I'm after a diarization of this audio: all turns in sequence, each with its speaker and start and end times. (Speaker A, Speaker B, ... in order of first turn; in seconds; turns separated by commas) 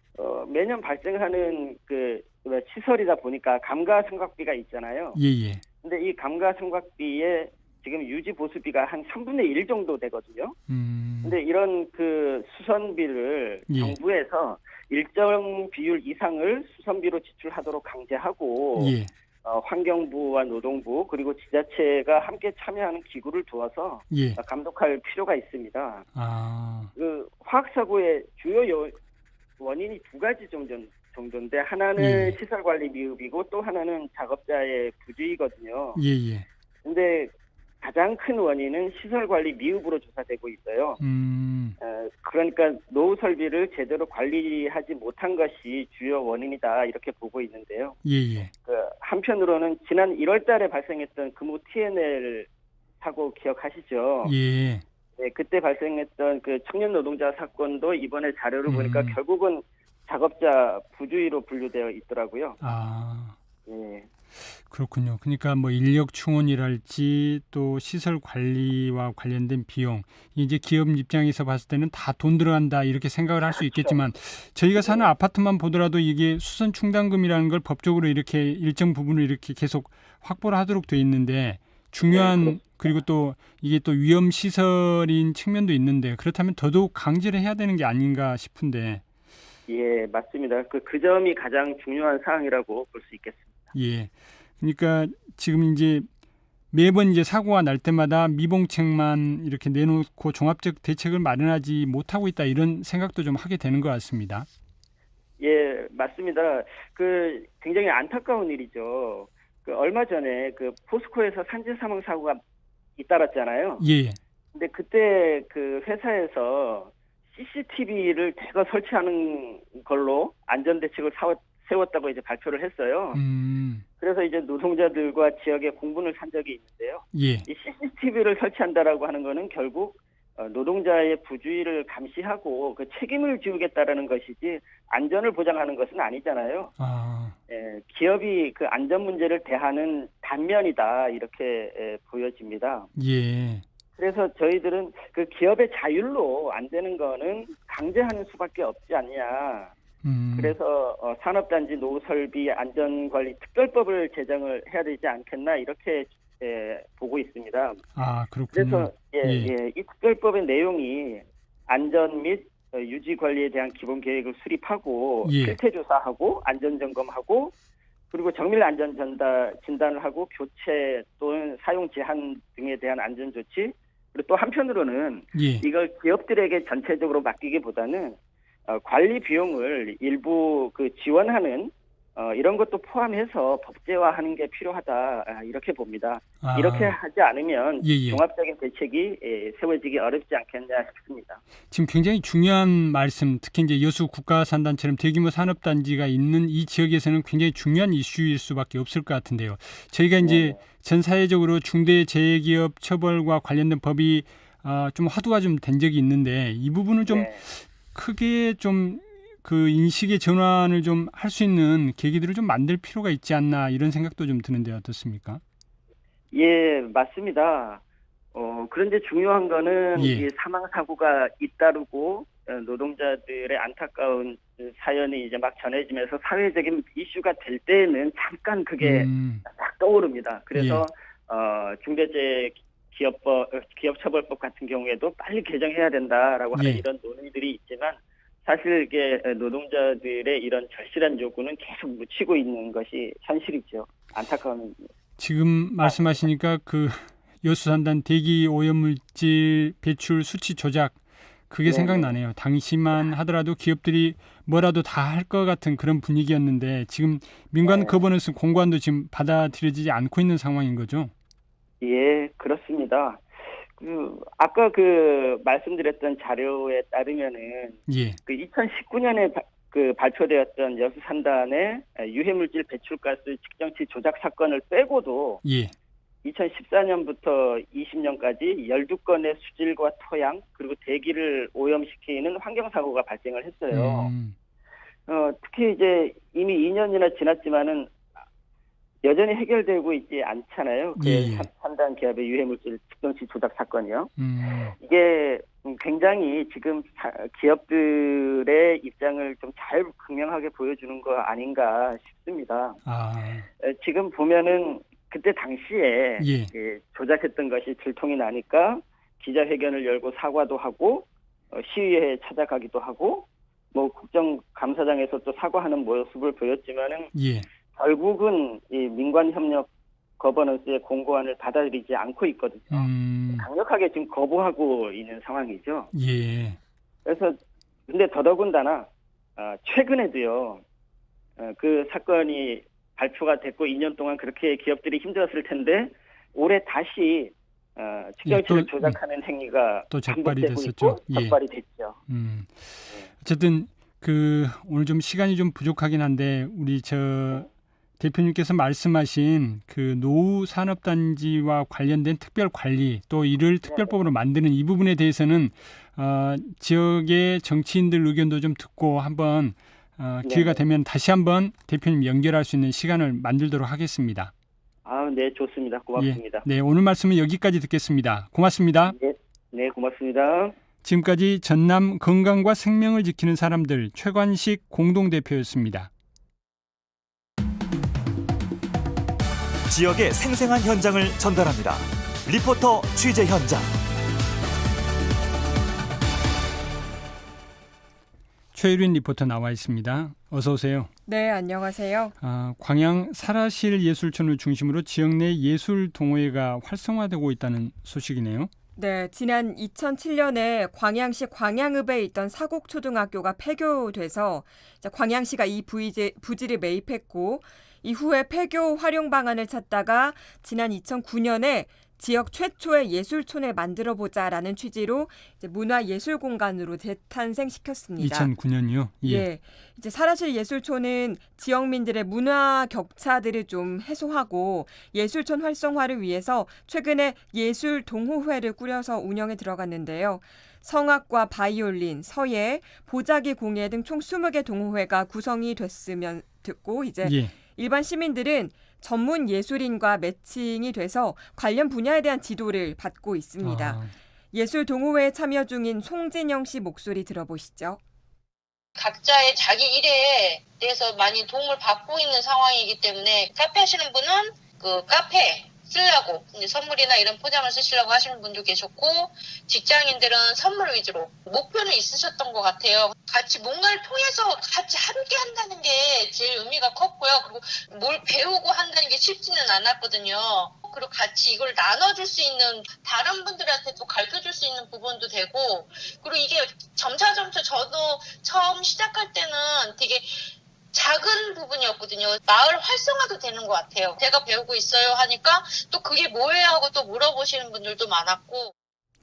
Speaker A: 0.1-5.2, Speaker B: 5.1-5.6, Speaker A: 5.8-10.6, Speaker B: 10.7-11.4, Speaker A: 11.2-26.1, Speaker B: 13.7-14.0, Speaker B: 18.8-19.1, Speaker B: 24.1-24.4, Speaker B: 26.1-26.9, Speaker A: 27.0-28.9, Speaker A: 29.6-36.0, Speaker B: 32.0-32.4, Speaker B: 36.0-36.5, Speaker A: 36.8-41.0, Speaker B: 41.0-41.8, Speaker A: 41.8-48.0, Speaker B: 48.0-48.5, Speaker A: 48.6-52.5, Speaker A: 53.0-54.3, Speaker B: 54.2-54.8, Speaker A: 55.2-62.6, Speaker B: 58.7-59.2, Speaker B: 62.6-63.4, Speaker A: 63.7-64.1, Speaker B: 64.6-89.0, Speaker A: 73.6-74.0, Speaker A: 74.8-75.1, Speaker A: 82.1-83.0, Speaker A: 89.7-93.7, Speaker B: 93.8-96.1, Speaker B: 96.7-104.5, Speaker A: 105.4-112.4, Speaker A: 113.0-113.8, Speaker B: 113.8-114.2, Speaker A: 114.5-123.2, Speaker B: 123.1-123.8, Speaker A: 124.0-136.7, Speaker B: 127.1-127.5, Speaker B: 136.8-137.3, Speaker A: 137.5-142.9, Speaker B: 143.0-143.7, Speaker A: 144.0-149.7, Speaker B: 150.0-150.6, Speaker A: 150.3-157.8, Speaker B: 158.0-159.5, Speaker A: 158.5-167.5, Speaker B: 165.2-165.6, Speaker A: 168.1-178.2, Speaker B: 175.3-175.7, Speaker A: 178.7-191.4, Speaker B: 186.4-187.0, Speaker B: 187.8-188.2, Speaker B: 191.7-215.4, Speaker A: 200.2-200.6, Speaker A: 207.1-207.4, Speaker A: 216.3-217.8, Speaker A: 218.3-244.8, Speaker B: 220.0-220.3, Speaker B: 228.8-229.4, Speaker B: 230.5-230.8, Speaker B: 236.5-236.8, Speaker B: 245.2-261.1, Speaker A: 245.8-246.2, Speaker A: 251.7-252.2, Speaker A: 257.6-258.0, Speaker A: 261.8-263.2, Speaker A: 263.8-275.4, Speaker B: 267.9-268.2, Speaker B: 275.4-275.7, Speaker A: 276.2-284.1, Speaker B: 283.7-284.3, Speaker A: 285.1-287.9, Speaker A: 289.0-294.1, Speaker B: 291.0-291.5, Speaker B: 294.2-294.8, Speaker A: 294.8-302.8, Speaker B: 302.9-303.5, Speaker A: 303.6-317.1, Speaker B: 306.2-306.5, Speaker B: 317.1-317.5, Speaker A: 317.8-319.7, Speaker A: 320.2-325.9, Speaker B: 322.7-323.5, Speaker B: 325.9-326.6, Speaker A: 327.1-330.6, Speaker A: 331.4-342.0, Speaker B: 338.2-339.0, Speaker B: 339.9-341.4, Speaker B: 342.1-347.5, Speaker B: 348.0-364.3, Speaker A: 353.6-354.0, Speaker A: 360.2-360.6, Speaker A: 364.8-366.5, Speaker B: 366.0-369.0, Speaker A: 368.9-370.6, Speaker B: 370.8-375.9, Speaker C: 379.7-383.8, Speaker B: 388.5-390.9, Speaker D: 391.1-392.1, Speaker B: 392.2-398.5, Speaker D: 398.8-418.3, Speaker B: 418.0-419.3, Speaker D: 419.0-447.8, Speaker B: 437.0-437.3, Speaker B: 443.4-443.9, Speaker E: 448.8-480.1, Speaker E: 480.7-488.5